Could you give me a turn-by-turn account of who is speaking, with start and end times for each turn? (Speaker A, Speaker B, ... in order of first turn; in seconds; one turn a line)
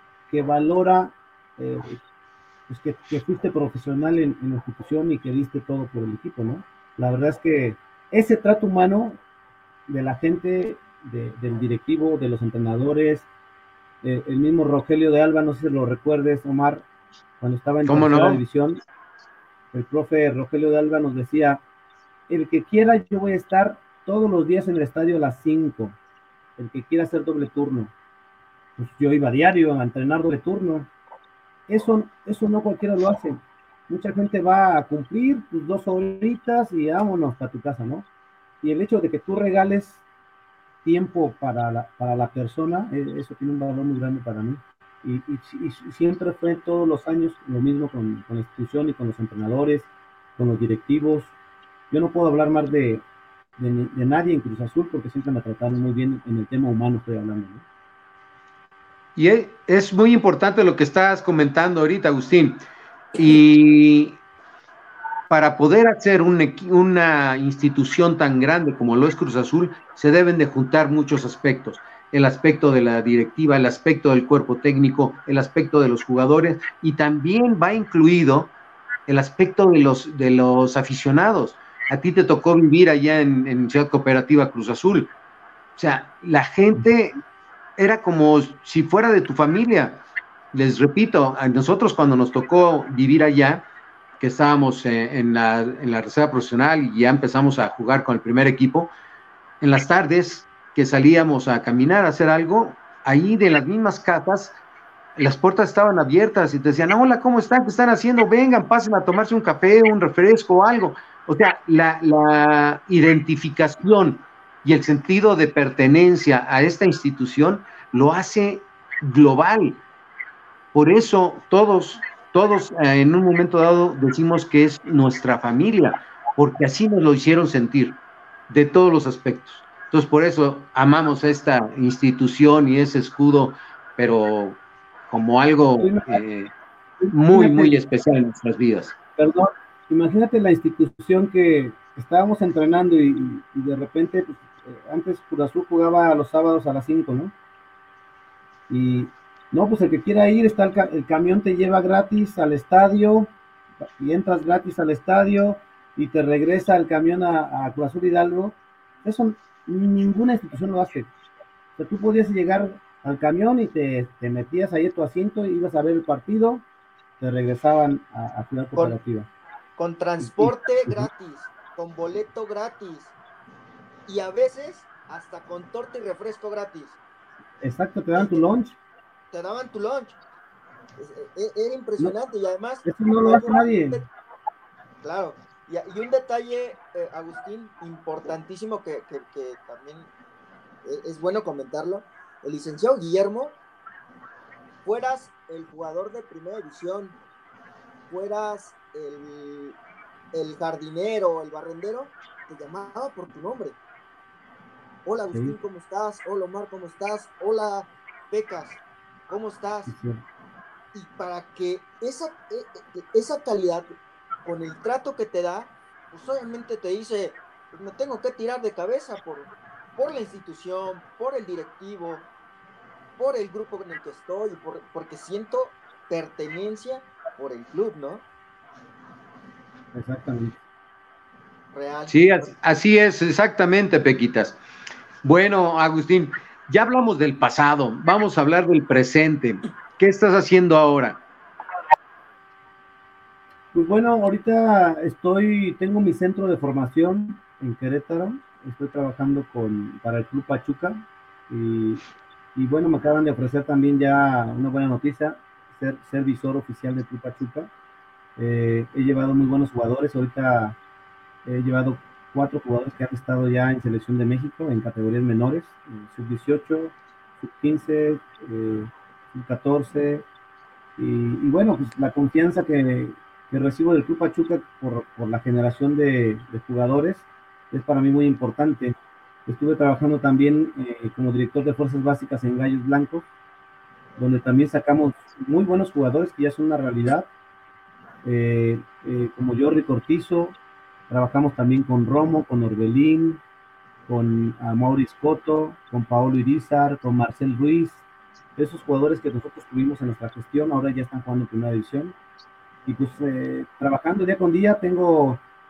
Speaker A: 0.3-2.0
Speaker A: 2.7-9.2
Speaker A: 9.9-13.3
Speaker A: 14.0-16.8
Speaker A: 17.4-18.8
Speaker B: 17.8-18.4
Speaker A: 19.7-21.6
Speaker A: 22.3-25.9
Speaker A: 26.6-27.9
Speaker A: 28.8-30.9
Speaker A: 31.7-38.0
Speaker A: 38.6-40.0
Speaker A: 40.8-51.3
Speaker A: 51.9-53.0
Speaker A: 53.6-57.6
Speaker B: 59.1-62.6
Speaker B: 63.1-64.2
Speaker B: 65.3-78.5
Speaker B: 79.1-85.1
Speaker B: 85.8-87.2
Speaker B: 87.8-90.0
Speaker B: 90.5-93.7
Speaker B: 94.2-98.9
Speaker B: 99.6-104.6
Speaker B: 105.2-119.8
Speaker B: 120.7-128.0
Speaker B: 128.5-136.5
Speaker A: 135.8-136.2
Speaker B: 137.1-138.9
Speaker A: 137.2-137.7
Speaker A: 139.2-147.3
Speaker A: 148.7-153.3
Speaker A: 153.8-161.1
Speaker A: 161.8-166.6
Speaker A: 167.2-169.3
Speaker C: 169.8-173.1
Speaker A: 170.2-171.1
Speaker C: 174.1-177.0
Speaker A: 177.6-178.8
Speaker C: 178.1-178.4
Speaker C: 179.3-180.2
Speaker C: 181.0-184.1
Speaker A: 182.8-184.0
Speaker C: 185.0-190.1
Speaker C: 190.8-193.6
Speaker C: 194.8-197.2
Speaker C: 198.1-199.8
Speaker C: 200.3-203.8
Speaker C: 205.0-209.9
Speaker A: 209.9-210.2
Speaker C: 210.9-213.9
Speaker C: 214.4-222.3
Speaker C: 223.2-228.2
Speaker A: 229.9-230.6
Speaker C: 231.7-232.5
Speaker B: 232.1-234.6
Speaker B: 235.2-241.2
Speaker A: 243.7-252.0
Speaker A: 252.5-257.7
Speaker A: 258.4-260.8
Speaker A: 261.4-270.2
Speaker A: 271.0-278.9
Speaker A: 279.5-283.3
Speaker A: 284.2-287.3
Speaker A: 288.2-290.6
Speaker A: 291.1-293.4
Speaker A: 294.1-298.0
Speaker A: 298.6-302.1
Speaker A: 302.9-305.4